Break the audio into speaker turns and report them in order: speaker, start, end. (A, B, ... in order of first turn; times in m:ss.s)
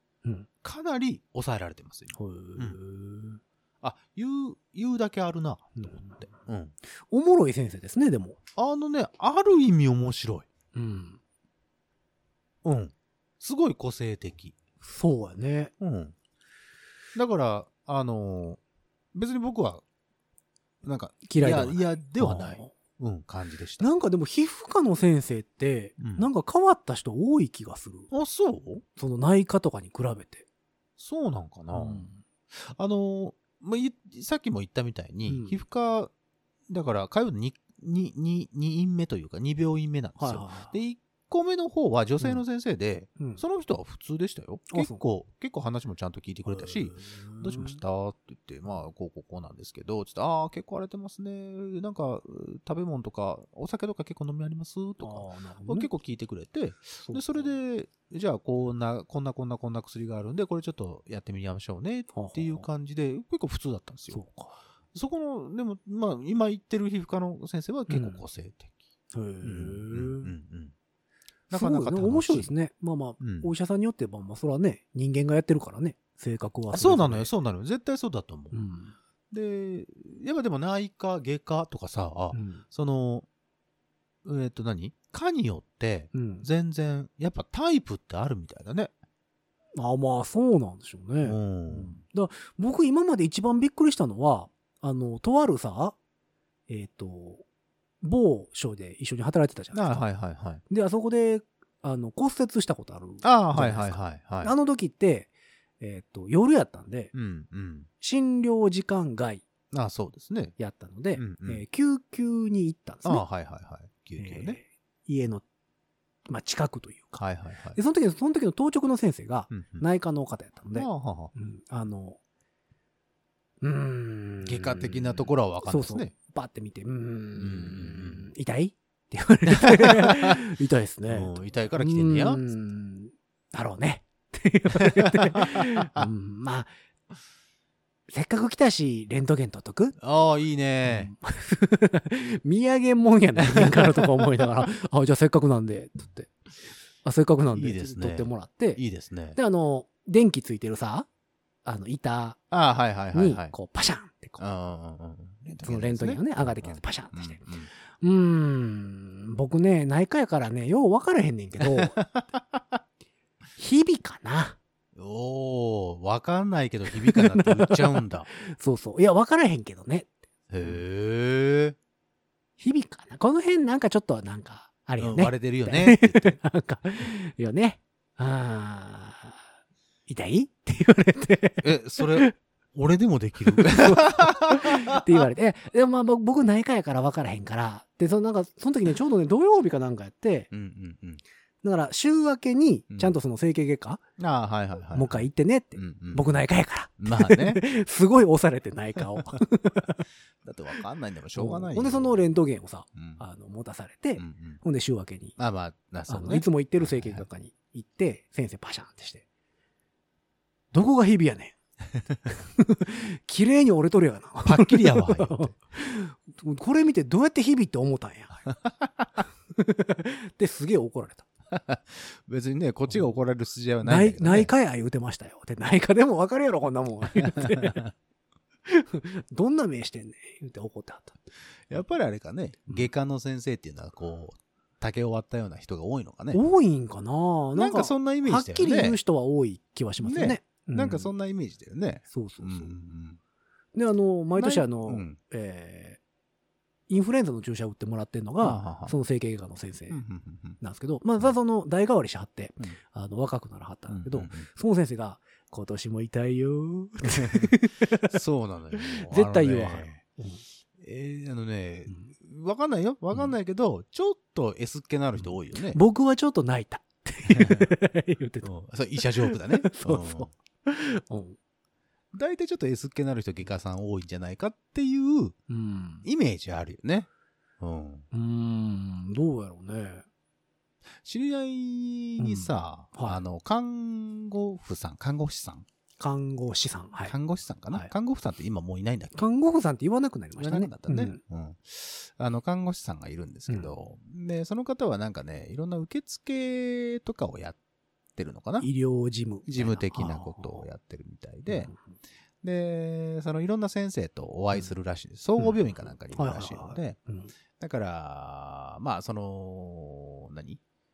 0:00.6-0:02.8 A
0:02.1-0:03.4 B
0:03.8-0:06.7 A
0:05.8-0:06.3 B
0:07.1-0:08.4 B
0:08.6-0:10.5 A
0:10.8-0:11.2 B
0:12.6-0:14.6 A
0:14.8-0:15.7 B
0:15.8-0:16.2 A
0:17.2-0:18.6 A
0:19.1-0:19.8 A
0:20.8-0:23.8 A
0:21.2-0:22.7 B
0:23.8-0:28.1 B
0:26.0-0:26.3 A
0:28.1-0:28.8 A
0:29.0-0:30.5 B
0:31.0-0:36.1 A
0:31.7-0:32.2 B
0:35.3-0:35.6 B
0:36.7-1:04.2 A
0:40.2-0:40.8 B
0:44.7-0:45.0 B
0:46.5-0:47.8 B
0:55.0-0:55.9 B
0:57.0-0:57.5 B
1:02.1-1:02.7 B
1:04.1-1:04.6 B
1:04.9-1:08.7 A
1:07.9-1:08.2 B
1:09.1-1:10.3 B
1:09.4-1:10.7 A
1:11.5-1:17.3 B
1:11.5-1:12.5 A
1:13.2-1:13.5 A
1:16.7-1:18.6 A
1:18.5-1:19.0 B
1:19.3-1:23.3 A
1:22.3-1:22.6 B
1:24.2-1:28.9 A
1:26.1-1:26.5 B
1:29.8-1:36.0 B
1:31.2-1:32.0 A
1:36.7-1:37.4 B
1:38.0-1:40.1 B
1:39.7-1:40.6 A
1:40.7-1:47.1 B
1:43.2-1:44.5 A
1:47.1-1:47.9 A
1:48.0-1:49.4 B
1:49.7-1:50.6 A
1:50.6-1:53.2 B
1:51.2-1:51.6 A
1:53.0-1:54.6 A
1:54.2-1:55.4 B
1:56.3-1:57.2 B
1:57.1-1:57.8 A
1:57.8-2:02.2 B
1:59.5-1:59.8 A
2:00.7-2:01.3 A
2:03.6-2:16.7 B
2:04.4-2:06.1 A
2:07.4-2:08.3 A
2:09.5-2:10.4 A
2:11.1-2:12.4 A
2:15.0-2:16.1 A
2:18.1-2:20.0 B
2:20.0-2:21.1 A
2:20.8-2:26.3 B
2:23.4-2:24.5 A
2:27.0-2:28.8 B
2:27.5-2:29.4 A
2:29.4-2:31.1 B
2:31.6-2:32.4 B
2:32.5-2:33.5 A
2:33.1-2:34.4 B
2:34.4-2:37.7 A
2:35.6-2:37.4 B
2:38.0-2:42.0 B
2:41.6-2:42.8 A
2:43.6-2:44.6 B
2:45.0-2:48.3 A
2:47.0-2:50.1 B
2:50.5-2:51.8 A
2:52.6-2:59.4 B
2:55.0-2:56.4 A
3:00.1-3:02.3 B
3:01.6-3:05.1 A
3:03.5-3:10.5 B
3:10.5-3:11.2 A
3:11.6-3:14.0 B
3:12.9-3:13.2 A
3:14.2-3:16.4 A
3:14.9-3:20.0 B
3:17.0-3:17.6 A
3:20.4-3:22.2 A
3:21.4-3:25.4 B
3:23.0-3:23.2 A
3:24.2-3:24.6 A
3:25.4-3:27.2 A
3:26.1-3:29.2 B
3:30.7-3:31.6 B
3:32.3-3:38.4 B
3:34.4-3:35.5 A
3:39.5-3:41.3 B
3:41.5-3:44.5 A
3:43.8-3:47.8 B
3:47.2-3:47.9 A
3:48.7-3:51.2 B
3:51.7-3:56.4 A
3:56.3-4:01.1 B
3:57.6-3:59.0 A
4:00.0-4:03.2 A
4:02.1-4:02.7 B
4:03.8-4:06.0 B
4:04.4-4:05.2 A
4:06.9-4:10.0 B
4:08.4-4:08.9 A
4:09.9-4:10.6 A
4:10.6-4:18.1 B
4:13.9-4:14.5 A
4:17.0-4:20.0 A
4:18.7-4:20.4 B
4:20.8-4:25.8 A
4:25.6-4:28.5 B
4:27.3-4:27.7 A
4:28.4-4:30.3 A
4:29.0-4:31.4 B
4:32.1-4:35.4 A
4:35.5-4:36.1 B
4:36.0-4:37.1 A
4:37.6-4:38.1 A
4:38.1-4:40.0 B
4:41.0-4:45.6 A
4:42.2-4:43.2 B
4:46.0-4:47.2 B
4:47.1-4:49.2 A
4:49.2-4:51.2 B
4:50.4-4:57.6 A
4:58.2-4:58.7 A
4:58.6-5:00.6 B
4:59.5-5:01.7 A
5:01.5-5:01.8 B
5:02.4-5:07.0 A
5:06.1-5:07.3 B
5:07.6-5:10.6 A